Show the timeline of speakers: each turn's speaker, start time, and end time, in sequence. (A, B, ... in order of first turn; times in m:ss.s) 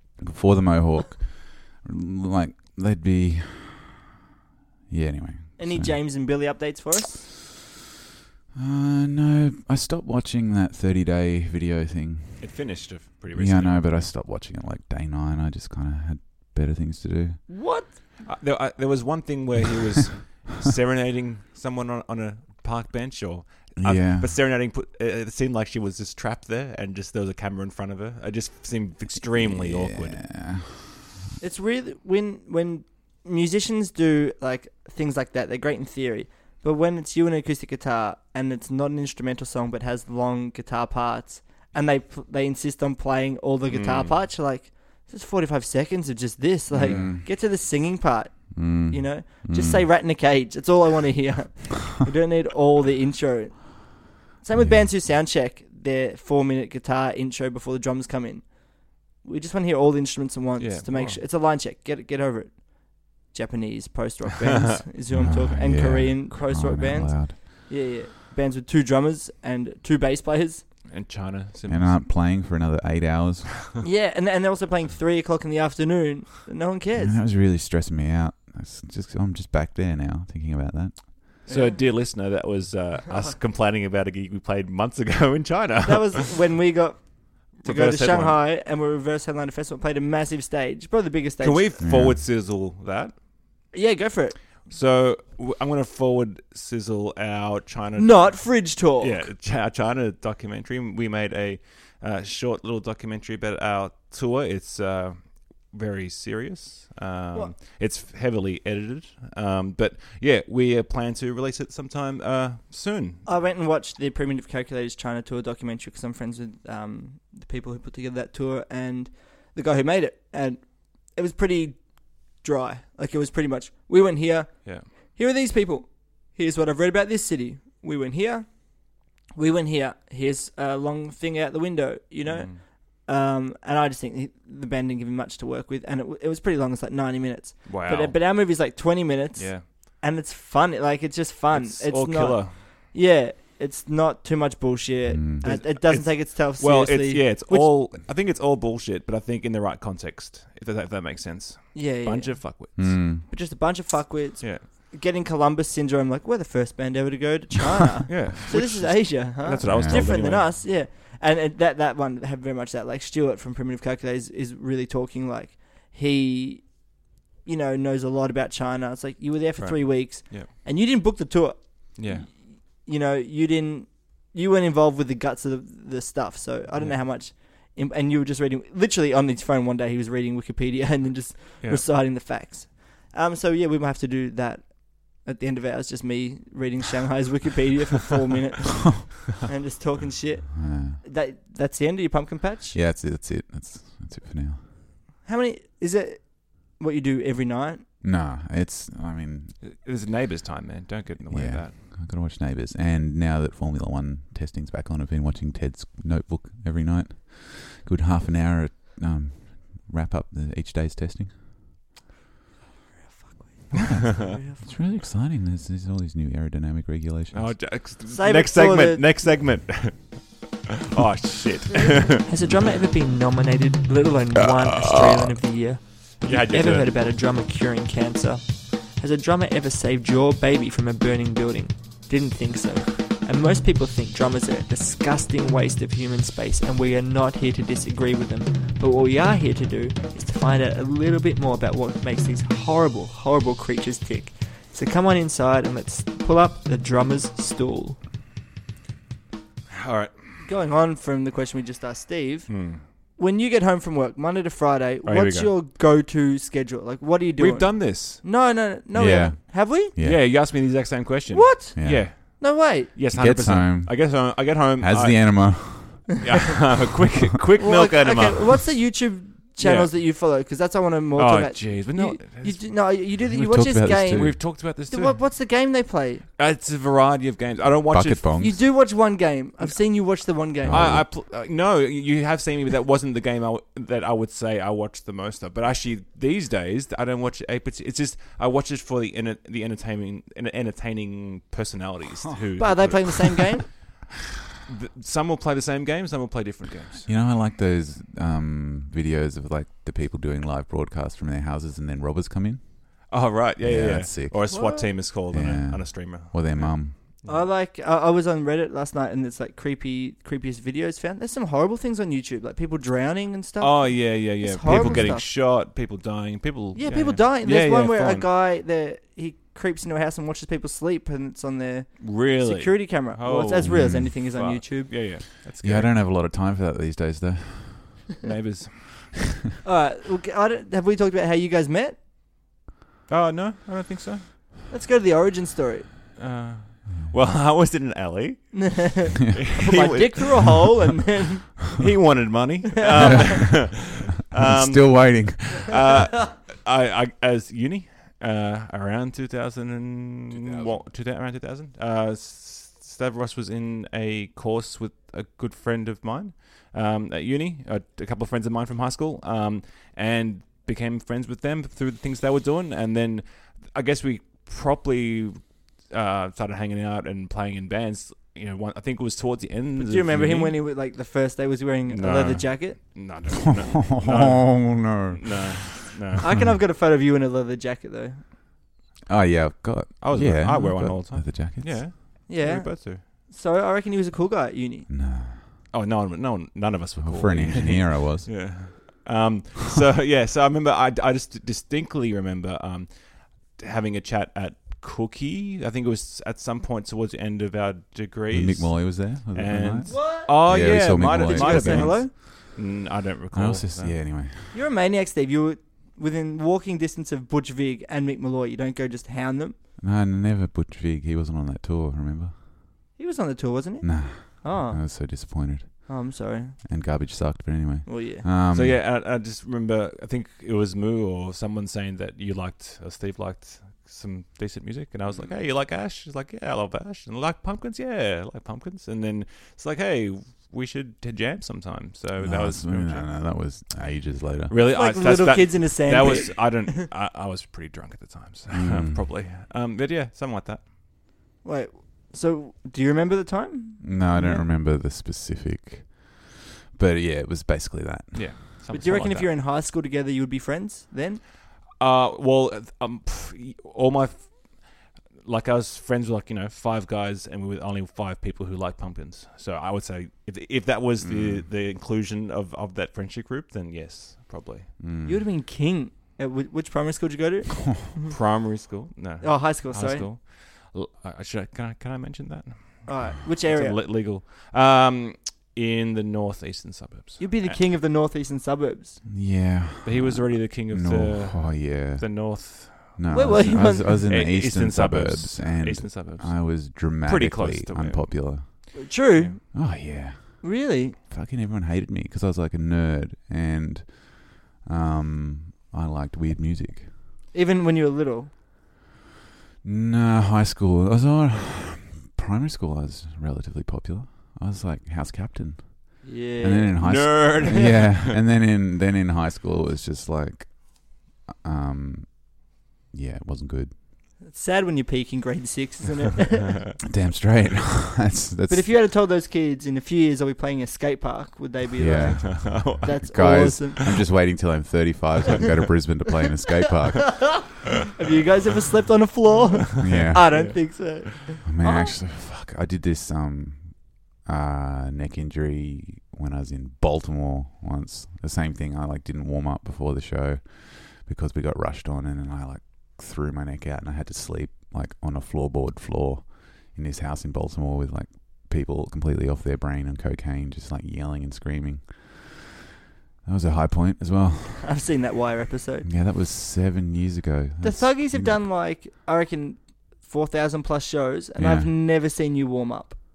0:00.2-0:03.9 A
0:04.9-0:06.0 A
0:05.6-0:07.2 B
0:08.6-0:12.6 A
0:12.4-0:14.0 C
0:13.3-0:17.4 A
0:17.5-0:18.0 B
0:18.2-0:30.3 C
0:23.8-0:24.3 A
0:29.2-0:30.9 A
0:31.4-1:10.7 B
0:43.7-0:44.2 C
0:46.7-0:47.3 A
0:46.8-0:47.1 C
0:48.5-0:49.9 A
0:54.6-0:54.9 A
1:00.6-1:01.2 C
1:05.1-1:07.4 A
1:10.9-1:12.0 C
1:11.7-1:13.7 A
1:13.8-1:17.2 B
1:17.0-1:21.3 A
1:21.5-1:21.8 B
1:21.5-1:26.3 C
1:25.8-1:31.7 B
1:27.6-1:28.4 C
1:31.4-1:33.2 C
1:31.8-1:32.2 A
1:33.7-1:34.4 B
1:34.7-1:53.3 C
1:38.0-1:39.3 B
1:53.3-2:27.8 B
2:12.3-2:12.6 C
2:17.7-2:18.3 C
2:19.4-2:19.7 C
2:21.5-2:22.6 C
2:25.1-2:25.5 A
2:25.4-2:33.0 C
2:31.7-3:12.8 B
2:32.8-2:33.2 A
2:34.4-2:34.7 C
2:38.1-2:40.6 C
2:39.6-2:40.1 A
2:49.6-2:50.5 C
2:52.0-2:52.3 C
3:10.6-3:11.0 A
3:12.7-3:14.6 A
3:15.2-3:17.8 B
3:18.0-3:19.6 A
3:19.6-3:21.8 C
3:21.3-3:31.4 A
3:33.0-3:34.6 B
3:33.8-3:37.8 A
3:37.3-3:42.3 C
3:38.1-3:39.1 B
3:42.2-4:08.0 D
3:46.2-3:46.9 C
4:09.7-4:10.2 C
4:10.4-4:19.9 B
4:12.5-4:12.8 C
4:15.0-4:15.5 C
4:17.4-4:18.2 C
4:18.9-4:20.3 A
4:20.0-4:28.8 C
4:21.3-4:22.9 B
4:21.8-4:22.1 A
4:23.1-4:26.2 A
4:27.6-4:36.2 B
4:29.6-4:30.0 C
4:31.2-4:32.7 C
4:33.2-4:34.6 A
4:34.1-4:35.2 C
4:36.4-4:38.4 C
4:37.9-4:38.7 A
4:38.4-4:41.0 B
4:40.6-4:41.1 A
4:40.7-4:53.9 C
4:52.6-4:53.7 B
4:54.6-4:57.1 C
4:57.1-5:04.7 A
5:03.1-5:07.4 C
5:04.5-5:04.9 B
5:05.3-5:07.0 A
5:07.3-5:15.3 B
5:13.6-5:18.3 C
5:14.7-5:15.2 A
5:16.8-5:25.0 B
5:22.0-5:25.9 C
5:23.6-5:24.1 A
5:25.6-5:28.0 A
5:28.2-5:29.2 C
5:29.6-5:32.0 B
5:33.1-5:34.3 C
5:34.7-5:35.9 B
5:36.2-5:40.6 C
5:38.5-5:41.6 B
5:41.7-6:10.6 C
5:42.8-5:43.4 B
5:43.0-5:45.8 A
5:50.3-5:50.8 A
6:09.8-6:12.8 B
6:11.9-6:16.4 C
6:13.8-6:16.6 A
6:16.2-6:18.2 B
6:19.1-6:22.0 A
6:20.0-6:23.0 C
6:22.3-6:24.9 B
6:24.9-6:25.4 A
6:25.7-6:44.0 C
6:27.0-6:28.6 A
6:38.3-6:42.7 A
6:39.9-6:42.1 B
6:43.3-6:44.6 A
6:44.5-6:49.6 B
6:49.8-6:52.3 A
6:53.0-6:56.6 B
6:53.8-6:56.1 A
6:56.6-6:58.8 A
6:57.9-6:58.2 B
6:58.5-7:13.2 C
7:12.2-7:14.6 A
7:14.5-7:20.7 C
7:14.7-7:16.8 B
7:18.5-7:19.0 A
7:21.4-7:24.4 B
7:23.8-7:28.4 A
7:28.1-7:29.3 C
7:28.7-7:31.2 B
7:31.7-7:44.8 C
7:41.0-7:41.5 A
7:44.8-7:45.2 A
7:45.0-7:48.1 B
7:48.1-7:57.6 C
7:49.2-7:50.1 B
7:52.9-7:53.8 B
7:57.2-7:59.0 B
7:59.0-8:09.0 A
7:59.8-8:09.4 C
8:03.1-8:04.0 B
8:08.7-8:09.9 B
8:09.5-8:16.9 A
8:10.4-8:11.0 B
8:17.3-8:18.3 B
8:19.6-8:33.8 A
8:26.0-8:27.6 B
8:26.8-8:28.2 C
8:34.2-8:36.6 B
8:36.9-8:38.7 A
8:38.5-8:43.9 B
8:41.8-8:47.6 A
8:42.0-8:44.0 C
8:47.9-8:52.0 B
8:49.8-8:50.8 A
8:49.8-8:50.9 C
8:51.4-9:12.4 A
9:13.2-9:14.8 A
9:14.6-9:15.9 B
9:15.8-9:18.5 A
9:17.6-9:23.0 B
9:21.4-9:21.7 A